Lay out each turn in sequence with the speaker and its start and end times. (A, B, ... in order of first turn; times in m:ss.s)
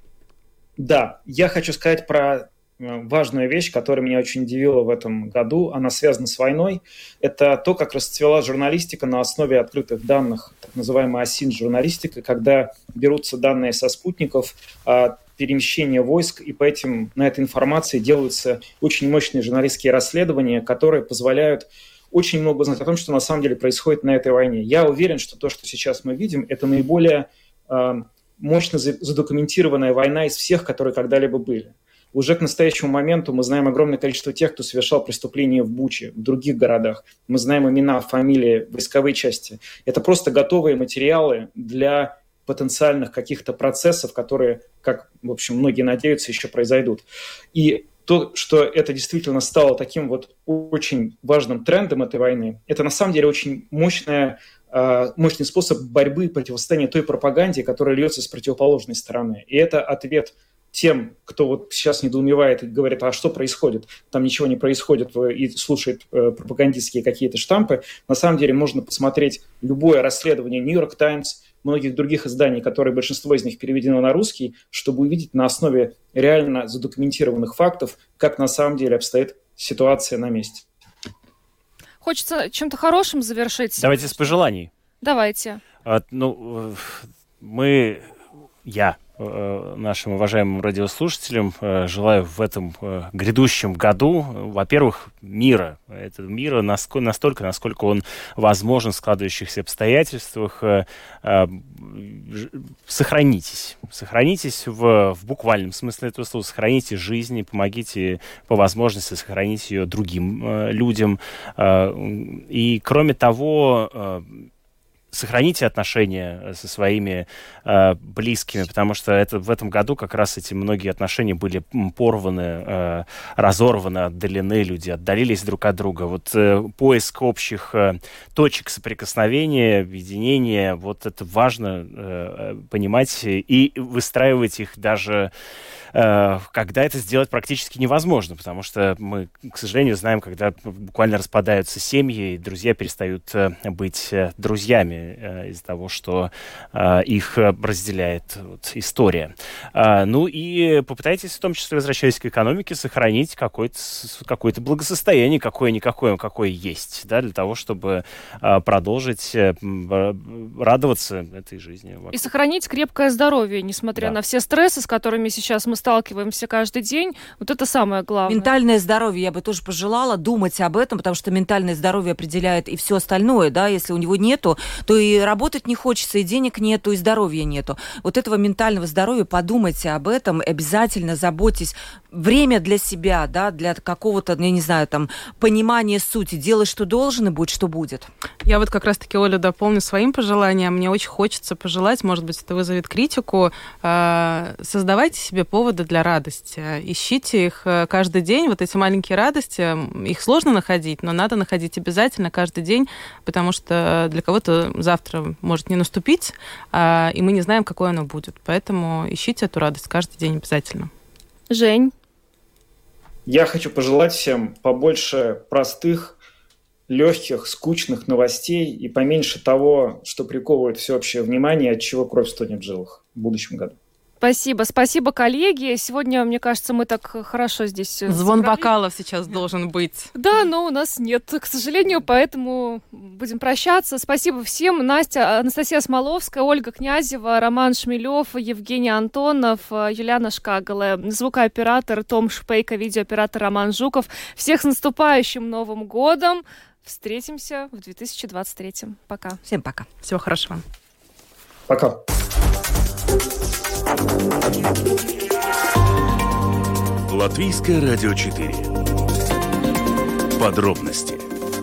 0:00.8-1:20.6 A
1:22.0-1:24.3 B
1:23.8-1:24.7 C
1:25.0-1:25.6 B
1:25.8-1:28.1 C
1:28.6-1:54.5 C
1:55.1-2:15.3 C
2:15.9-2:42.3 C
2:42.1-2:48.5 B
2:48.3-3:08.1 D
3:08.4-3:30.9 E
3:31.5-3:31.9 B
3:33.2-3:36.2 A
3:36.9-3:43.8 A
3:44.2-3:48.7 B
3:48.1-3:50.1 E
3:50.1-4:09.4 B
4:09.4-4:09.9 D
4:10.0-4:10.6 E
4:11.7-4:12.0 A
4:17.1-4:18.7 F
4:20.4-4:21.2 F